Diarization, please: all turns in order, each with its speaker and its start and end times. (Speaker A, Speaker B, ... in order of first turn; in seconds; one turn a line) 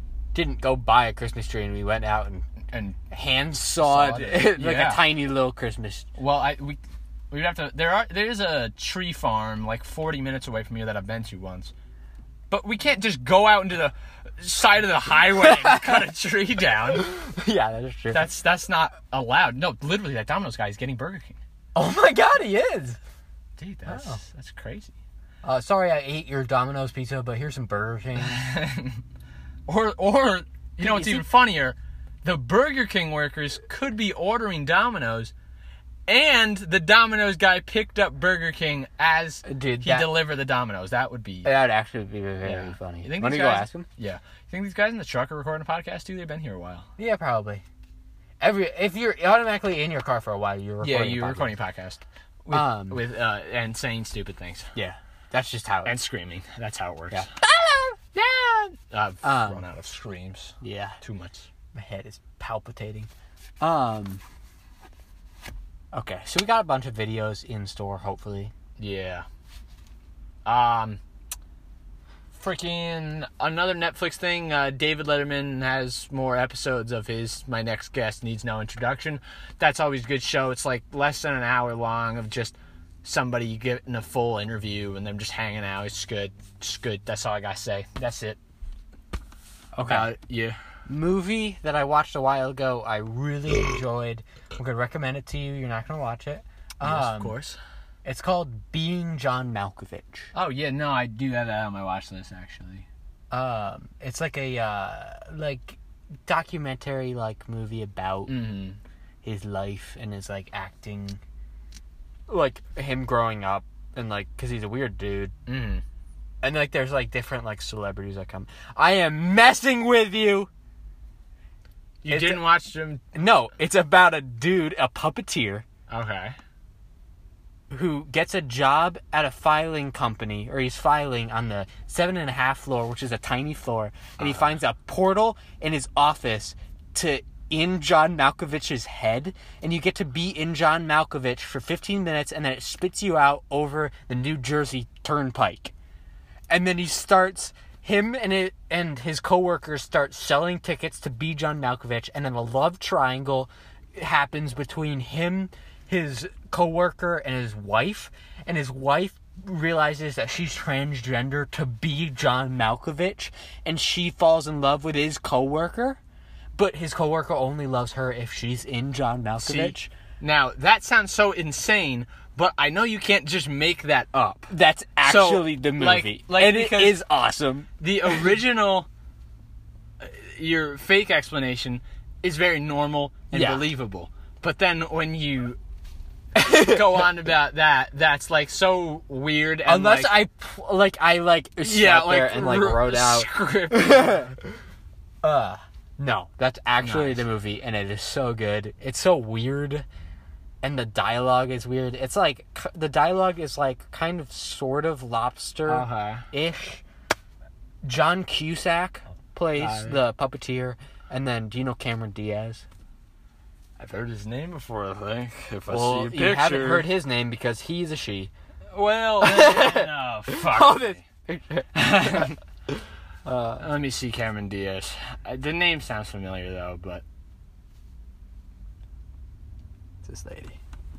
Speaker A: 0.3-2.5
Speaker B: 2.7-3.0
Speaker A: 3.1-6.1
Speaker B: 3.8-5.0
Speaker B: 6.2-11.7
Speaker B: 12.5-17.1
Speaker A: 15.4-15.9
Speaker A: 16.9-18.3
Speaker B: 18.1-21.4
Speaker A: 21.7-23.0
Speaker B: 23.6-24.9
Speaker A: 23.9-24.2
Speaker A: 25.4-28.4
Speaker B: 28.2-29.0
Speaker B: 29.7-35.3
Speaker A: 30.8-31.2
Speaker B: 36.1-41.5
Speaker A: 39.4-40.1
Speaker A: 41.4-43.9
Speaker B: 42.4-46.9
Speaker A: 47.0-47.6
Speaker A: 48.4-51.5
Speaker B: 50.8-54.7
Speaker A: 52.5-53.0
Speaker A: 54.7-56.0
Speaker B: 55.8-61.5
Speaker A: 59.2-59.6
Speaker A: 60.6-61.0
Speaker A: 61.7-63.1
Speaker A: 63.6-64.2
Speaker A: 65.9-68.5
Speaker B: 68.8-69.2
Speaker B: 70.4-71.0
Speaker B: 72.3-88.4
Speaker A: 89.7-90.1
Speaker B: 89.8-90.6
Speaker A: 90.9-97.4
Speaker B: 96.8-97.6
Speaker A: 98.0-100.3
Speaker B: 100.3-102.9
Speaker A: 103.3-108.5
Speaker B: 108.3-108.8
Speaker A: 109.2-111.2
Speaker A: 112.3-115.3
Speaker B: 115.5-115.8
Speaker A: 116.4-120.5
Speaker B: 122.0-123.0
Speaker A: 122.1-122.5
Speaker A: 123.1-125.7
Speaker B: 125.9-126.4
Speaker A: 127.7-145.7
Speaker B: 134.2-134.4
Speaker A: 146.5-166.0
Speaker A: 166.5-169.9
Speaker B: 169.4-177.0
Speaker A: 174.5-177.7
Speaker B: 177.8-178.9
Speaker B: 180.0-185.6
Speaker A: 183.3-183.7
Speaker A: 186.3-186.8
Speaker B: 186.3-190.2
Speaker A: 189.6-194.4
Speaker B: 191.6-194.3
Speaker A: 195.2-199.8
Speaker B: 196.8-197.2
Speaker A: 200.6-206.8
Speaker B: 205.7-206.3
Speaker A: 207.8-212.7
Speaker B: 209.6-210.0
Speaker B: 213.8-216.9
Speaker A: 215.7-218.3
Speaker B: 218.7-221.0
Speaker A: 219.2-222.3
Speaker B: 221.7-222.4
Speaker A: 223.2-223.6
Speaker B: 223.6-227.0
Speaker A: 230.0-230.6